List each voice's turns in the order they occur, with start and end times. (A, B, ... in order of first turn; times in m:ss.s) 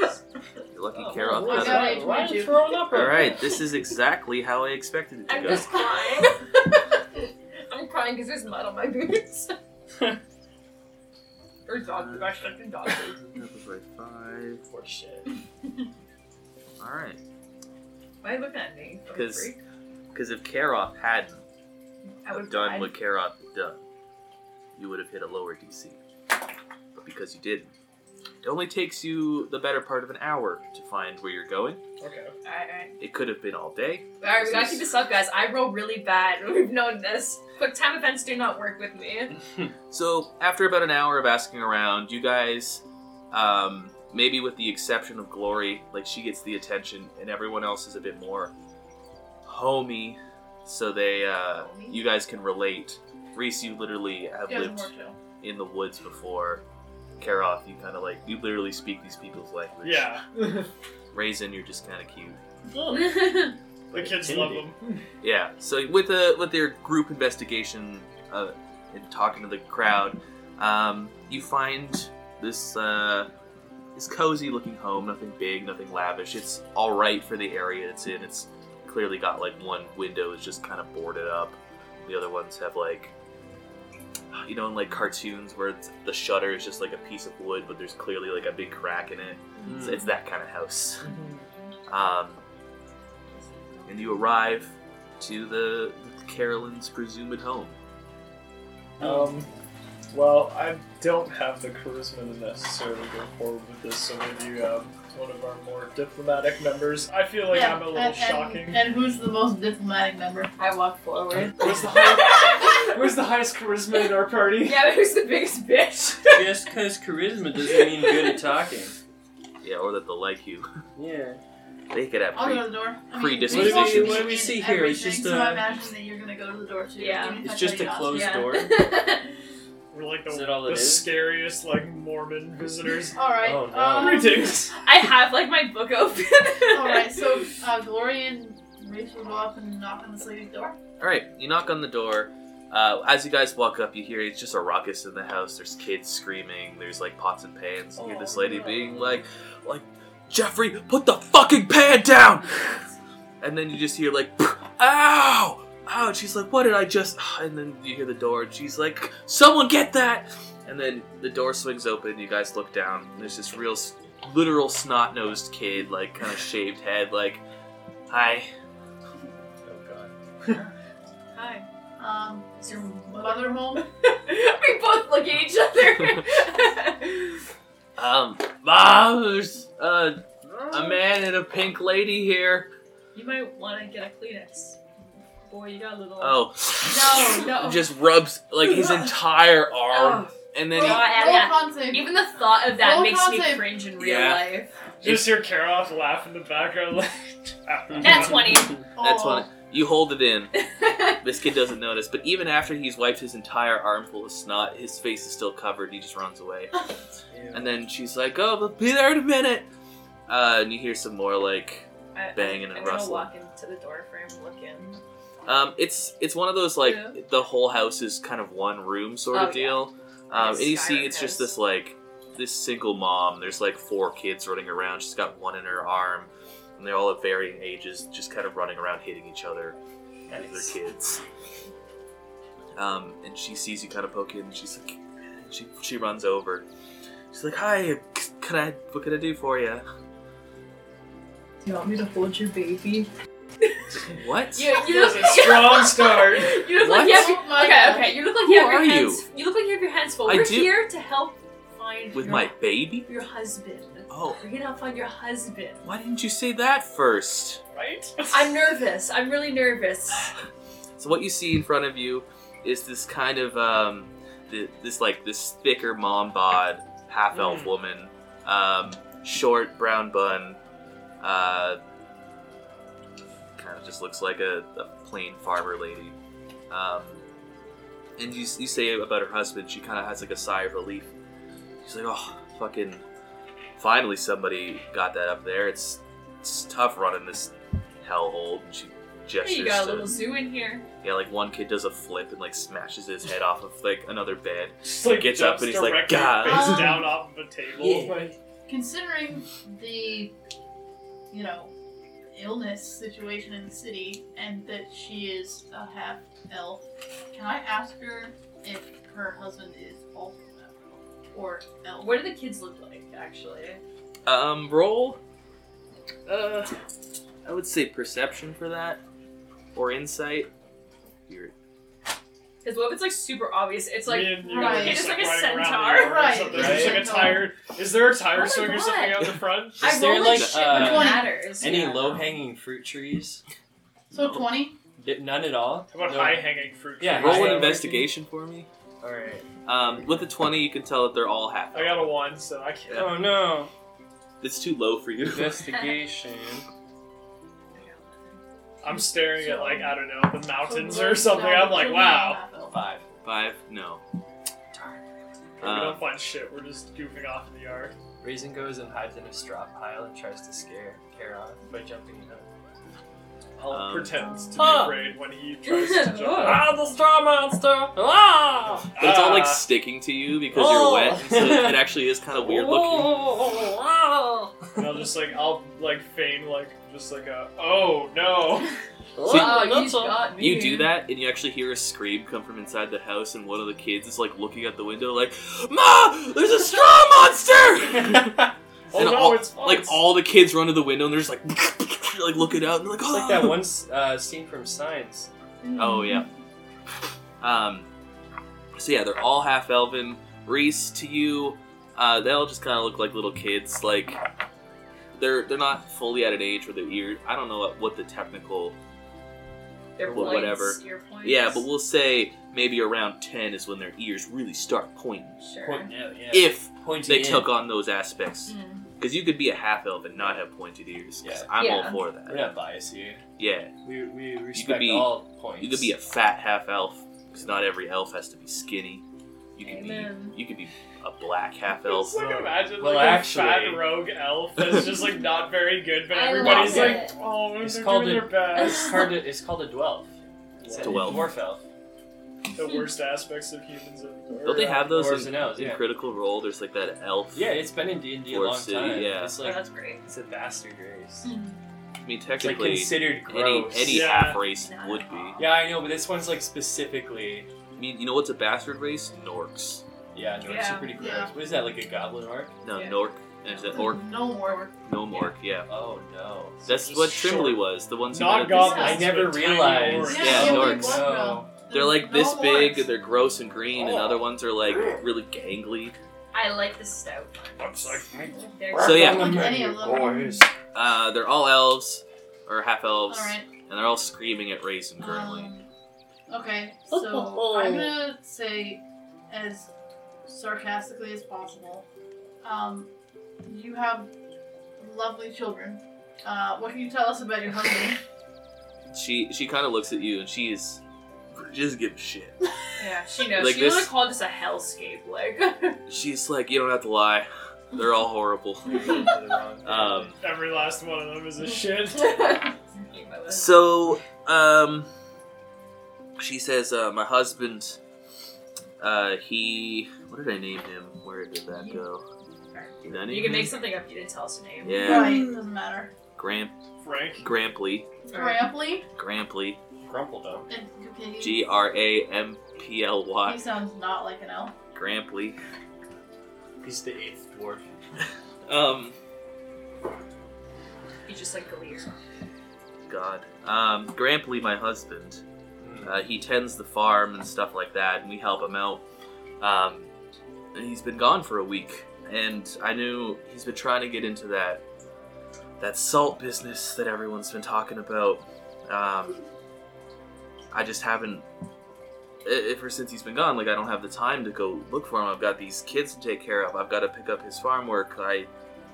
0:00.7-0:02.1 A
0:00.9-0:03.6 B
0:01.3-0:02.6 C
0:02.9-0:05.8 A
0:05.3-0:09.6 D
0:11.6-0:13.2 D
0:11.9-0:12.5 A
0:13.2-0:14.6 A
0:14.7-0:15.3 B
0:16.8-0:17.2 A
0:18.2-0:19.6 D
0:19.1-0:19.5 A
0:20.1-0:21.4 A
0:22.2-0:22.9 D
0:22.3-0:23.8 A
0:24.8-0:26.0 A
0:26.9-0:27.7 A
0:28.4-0:31.8 A
0:32.0-0:32.3 E
0:32.4-0:33.0 D
0:33.0-0:34.9 A
0:34.2-0:39.3 D
0:39.9-0:48.5 A
0:49.4-0:56.6 A
0:51.6-0:52.0 D
0:54.5-0:55.2 C
0:57.2-1:00.2 A
0:59.8-1:00.7 E
1:01.1-1:02.4 A
1:02.7-1:03.1 B
1:02.9-1:03.6 D
1:03.9-1:04.7 B
1:03.9-1:05.0 E
1:05.2-1:13.3 A
1:13.9-1:23.1 A
1:24.3-1:31.1 A
1:29.6-1:30.0 D
1:29.6-1:30.0 B
1:31.0-1:31.4 E
1:31.9-1:32.4 A
1:33.3-1:34.2 D
1:33.8-1:37.8 A
1:39.0-1:39.5 E
1:40.1-1:48.8 E
1:47.5-1:50.5 C
1:50.6-1:53.0 D
1:51.5-1:54.9 E
1:54.6-1:56.5 D
1:56.3-1:58.9 B
1:57.7-1:58.3 D
1:59.6-2:00.7 A
2:01.0-2:01.4 B
2:01.9-2:04.4 A
2:02.3-2:08.5 C
2:03.5-2:05.6 B
2:07.0-2:07.4 D
2:07.4-2:08.7 B
2:08.0-2:09.4 D
2:09.9-2:13.2 E
2:10.3-2:11.1 B
2:13.1-2:14.6 C
2:13.4-2:14.4 B
2:13.9-2:14.8 E
2:14.8-2:17.2 D
2:16.7-2:20.8 C
2:21.0-2:32.8 A
2:28.0-2:29.0 D
2:33.4-2:47.4 A
2:48.1-2:48.5 A
2:49.6-2:50.1 B
2:51.3-2:51.7 D
2:52.0-2:53.8 C
2:52.6-2:57.4 D
2:58.0-3:02.7 A
3:00.4-3:00.8 B
3:03.1-3:04.8 D
3:05.5-3:07.9 D
3:06.2-3:11.4 A
3:09.9-3:14.7 D
3:10.7-3:12.1 C
3:12.7-3:13.7 C
3:14.0-3:14.4 A
3:15.0-3:15.4 A
3:15.0-3:18.6 E
3:18.0-3:18.8 D
3:18.9-3:19.5 C
3:19.0-3:20.6 A
3:20.6-3:21.2 D
3:21.2-3:26.8 A
3:27.3-3:27.8 B
3:27.5-3:29.7 A
3:30.3-3:33.3 A
3:32.1-3:35.0 D
3:35.4-3:49.8 A
3:36.8-3:37.2 D
3:39.3-3:41.5 D
3:50.3-3:50.7 B
3:50.3-3:51.2 A
3:52.8-3:56.6 A
3:57.3-3:59.8 A
4:01.6-4:03.1 D
4:04.1-4:04.7 A
4:04.5-4:15.8 D
4:04.7-4:06.7 E
4:06.8-4:07.4 A
4:06.9-4:08.2 C
4:08.3-4:09.2 A
4:10.2-4:10.7 A
4:12.1-4:13.1 A
4:14.1-4:14.4 A
4:15.8-4:17.6 A
4:17.7-4:18.4 E
4:18.3-4:20.3 D
4:21.0-4:30.6 A
4:27.3-4:27.7 B
4:31.2-4:31.8 A
4:33.6-4:36.2 A
4:36.7-4:37.2 A
4:38.2-4:41.1 A
4:41.8-4:43.0 A
4:43.8-4:50.1 A
4:49.4-4:50.8 D
4:51.0-4:57.0 A
4:54.8-4:58.3 E
4:56.4-4:57.2 C
4:57.8-4:58.3 B
4:58.7-5:00.3 C
5:01.3-5:01.7 C
5:02.3-5:12.1 C
5:12.0-5:13.8 D
5:14.2-5:15.2 A
5:16.3-5:16.7 A
5:17.4-5:19.0 A
5:19.7-5:20.5 A
5:21.3-5:21.5 A
5:22.6-5:26.2 D
5:24.0-5:30.0 E
5:24.4-5:25.1 C
5:26.0-5:27.6 C
5:26.5-5:27.2 B
5:28.3-5:32.4 D
5:29.8-5:33.4 B
5:30.1-5:30.9 A
5:30.6-5:31.9 C
5:34.1-5:34.8 C
5:34.1-5:34.5 A
5:35.0-5:38.1 B
5:35.9-5:37.8 E
5:37.1-5:38.7 A
5:39.0-5:40.1 B
5:39.6-5:42.2 A
5:41.7-5:43.2 E
5:42.9-5:43.2 A
5:42.9-5:43.7 B
5:44.4-5:45.6 A
5:45.2-5:46.6 B
5:47.7-5:48.4 D
5:48.8-5:52.4 E
5:48.8-5:52.7 C
5:52.7-5:53.0 B
5:53.2-5:54.0 A
5:54.7-5:55.0 B
5:55.6-5:56.0 A
5:55.6-5:57.9 E
5:58.2-6:02.5 B
6:03.6-6:06.7 E
6:03.7-6:04.3 A
6:04.2-6:04.8 C
6:04.6-6:05.0 B
6:05.6-6:06.7 D
6:06.3-6:08.9 B
6:08.9-6:09.7 E
6:09.0-6:13.2 A
6:10.5-6:15.0 B
6:14.8-6:18.8 E
6:19.2-6:20.3 B
6:19.2-6:20.9 D
6:19.2-6:19.7 A
6:20.4-6:33.6 A
6:28.9-6:30.0 E
6:33.0-6:35.3 B
6:35.6-6:36.2 D
6:35.8-6:36.3 A
6:37.4-6:37.9 A
6:38.8-6:44.2 A
6:45.1-6:48.8 A
6:50.0-6:51.6 D
6:50.0-6:55.4 A
6:55.4-6:55.9 D
6:55.6-6:57.5 B
6:56.3-7:02.5 A
6:58.5-6:58.9 D
7:01.2-7:01.5 B
7:01.6-7:02.0 D
7:02.2-7:03.2 B
7:03.4-7:03.7 A
7:03.8-7:05.9 B
7:04.5-7:09.0 A
7:09.6-7:12.2 A
7:09.6-7:10.4 D
7:11.8-7:19.0 E
7:12.1-7:14.0 B
7:16.1-7:17.1 D
7:16.4-7:17.0 B
7:17.5-7:20.1 B
7:20.6-7:21.2 E
7:20.6-7:21.6 B
7:20.8-7:21.3 A
7:22.5-7:24.8 E
7:24.4-7:27.6 A
7:24.7-7:25.8 B
7:27.3-7:31.3 B
7:28.2-7:29.4 A
7:29.4-7:30.0 D
7:31.2-7:31.5 D
7:32.0-7:35.4 A
7:32.4-7:34.2 B
7:33.8-7:34.4 E
7:34.6-7:35.5 D
7:35.4-7:37.5 B
7:37.8-7:39.8 A
7:40.1-7:42.6 B
7:40.4-7:41.0 D
7:40.9-7:41.3 C
7:42.6-7:44.1 A
7:42.7-7:45.3 D
7:43.6-7:44.7 C
7:44.8-7:45.7 A
7:45.7-7:46.6 B
7:46.6-7:49.1 A
7:46.6-7:50.6 E
7:48.5-7:49.1 D
7:48.7-7:51.5 B
7:49.9-7:52.9 C
7:50.0-7:51.1 A
7:51.7-7:56.0 A
7:53.8-7:54.2 B
7:56.3-7:59.2 D
7:57.6-7:58.1 E
7:58.1-8:00.5 B
7:58.8-7:59.5 A
7:59.0-8:00.5 C
8:00.7-8:05.5 A
8:03.1-8:03.5 C
8:05.0-8:05.6 C
8:06.3-8:09.7 C
8:06.9-8:08.0 B
8:10.2-8:11.8 C
8:12.4-8:12.9 C
8:13.4-8:14.1 C
8:14.8-8:18.0 C
8:18.9-8:20.8 A
8:21.3-8:22.4 A
8:22.8-8:25.8 D
8:23.3-8:23.9 A
8:25.9-8:29.1 A
8:28.6-8:30.2 B
8:29.6-8:30.2 A
8:30.2-8:32.5 E
8:32.0-8:33.6 D
8:33.3-8:34.9 A
8:36.2-8:37.8 A
8:38.8-8:42.0 A
8:41.5-8:41.8 D
8:42.5-8:45.3 D
8:42.8-8:43.6 A
8:44.6-8:45.4 A
8:44.8-8:45.9 C
8:46.2-8:46.5 A
8:46.8-8:47.3 E
8:47.2-8:47.9 A
8:48.1-8:48.8 C
8:48.1-8:48.5 D
8:48.9-8:49.6 A
8:49.8-8:50.5 B
8:50.5-8:51.4 C
8:51.2-8:53.4 A
8:53.2-8:54.5 C
8:54.7-8:55.4 A
8:56.6-8:57.7 B
8:58.0-8:59.0 A
9:01.0-9:01.9 D
9:02.9-9:05.2 A
9:05.6-9:06.0 B
9:05.8-9:08.8 A
9:09.4-9:09.9 A
9:10.5-9:14.6 A
9:15.6-9:19.2 A
9:20.5-9:21.2 A
9:22.2-9:28.3 A